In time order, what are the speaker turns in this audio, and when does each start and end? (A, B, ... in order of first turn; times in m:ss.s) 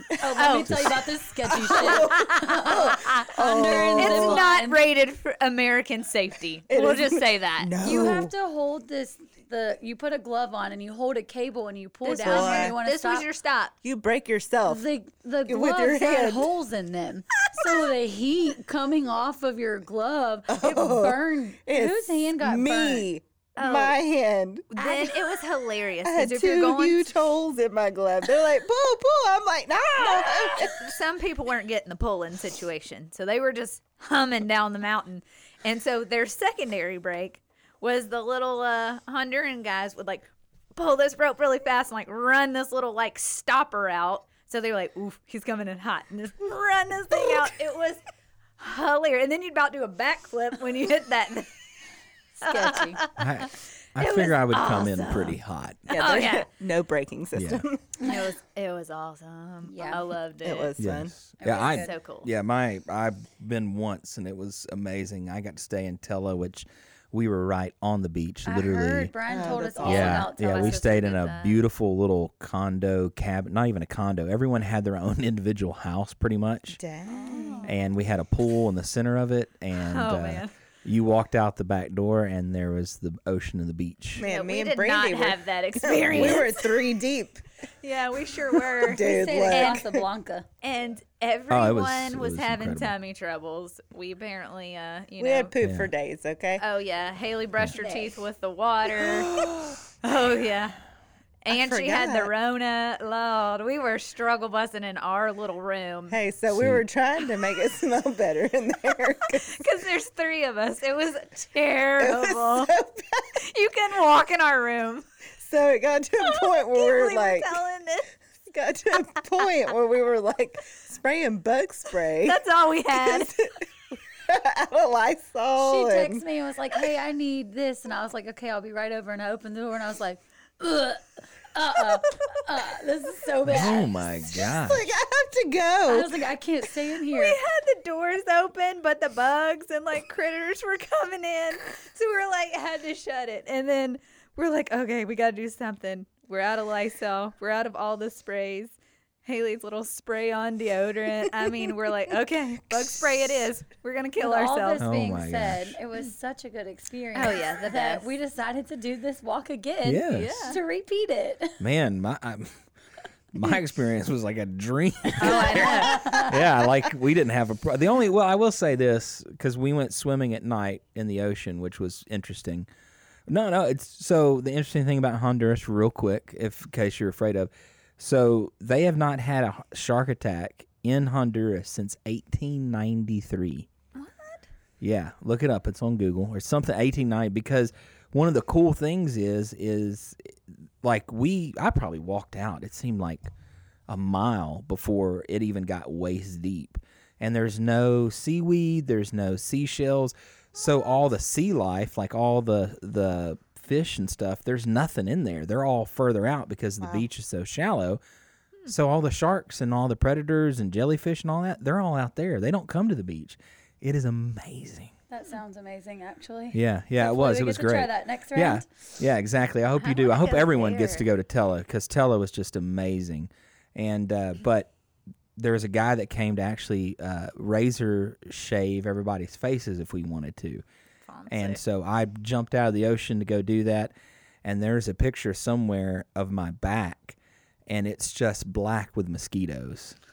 0:00.2-0:04.8 A
0:00.4-0:00.9 B
0:00.7-0:01.0 C
0:01.5-0:04.4 D
0:01.7-0:03.3 B
0:04.0-0:07.9 B
0:06.7-0:08.3 D
0:07.8-0:13.3 A
0:12.0-0:13.7 B
0:12.2-0:12.8 D
0:13.8-0:14.9 D
0:14.7-0:23.1 A
0:15.5-0:16.5 D
0:20.5-0:24.7 D
0:23.6-0:24.0 B
0:24.7-0:27.1 B
0:24.8-0:25.2 A
0:26.0-0:30.9 D
0:30.6-0:48.0 B
0:48.6-0:51.6 B
0:52.4-0:53.0 A
0:52.4-0:55.4 B
0:53.2-0:55.9 C
0:55.9-0:57.8 D
0:55.9-0:56.5 B
0:57.4-0:57.6 C
0:58.0-0:58.3 A
0:58.0-1:00.7 B
0:59.6-1:00.0 A
1:00.4-1:01.1 D
1:00.8-1:09.1 C
1:01.4-1:01.9 A
1:01.6-1:02.3 B
1:08.5-1:11.0 A
1:09.3-1:10.2 D
1:09.8-1:16.8 C
1:09.8-1:11.6 B
1:16.8-1:17.7 D
1:17.2-1:17.7 B
1:17.6-1:24.2 C
1:19.7-1:20.5 B
1:24.2-1:27.4 D
1:24.2-1:26.8 B
1:26.1-1:26.4 C
1:27.8-1:29.8 B
1:28.5-1:30.1 D
1:28.9-1:30.5 A
1:30.6-1:35.5 B
1:31.5-1:32.9 C
1:35.2-1:36.6 D
1:35.6-1:35.9 C
1:36.6-1:39.3 B
1:37.8-1:38.2 A
1:39.0-1:39.8 D
1:40.0-1:40.8 B
1:41.4-1:46.2 B
1:41.5-1:42.3 D
1:46.1-1:49.7 D
1:46.5-1:46.8 C
1:49.3-1:52.7 B
1:52.0-1:53.3 D
1:53.4-1:55.0 B
1:55.4-1:57.5 D
1:56.2-1:58.1 B
1:58.5-2:02.4 D
2:02.2-2:03.4 B
2:02.9-2:06.2 D
2:05.6-2:14.1 A
2:13.5-2:14.9 C
2:14.3-2:16.3 D
2:15.9-2:17.4 A
2:17.1-2:34.8 B
2:34.2-2:41.6 A
2:34.8-2:35.8 C
2:37.2-2:38.1 B
2:39.8-2:40.5 C
2:40.1-2:40.6 B
2:41.6-2:42.6 C
2:43.3-2:52.7 C
2:45.2-2:46.3 B
2:45.2-2:46.5 A
2:53.3-3:03.7 C
3:04.0-3:04.5 B
3:04.8-3:13.3 C
3:13.9-3:28.0 C
3:26.8-3:27.1 D
3:28.7-3:34.9 C
3:35.1-3:38.7 A
3:36.5-3:44.7 C
3:39.8-3:41.1 B
3:45.4-3:50.6 C
3:51.0-3:51.6 B
3:51.3-3:53.9 C
3:54.4-4:00.0 C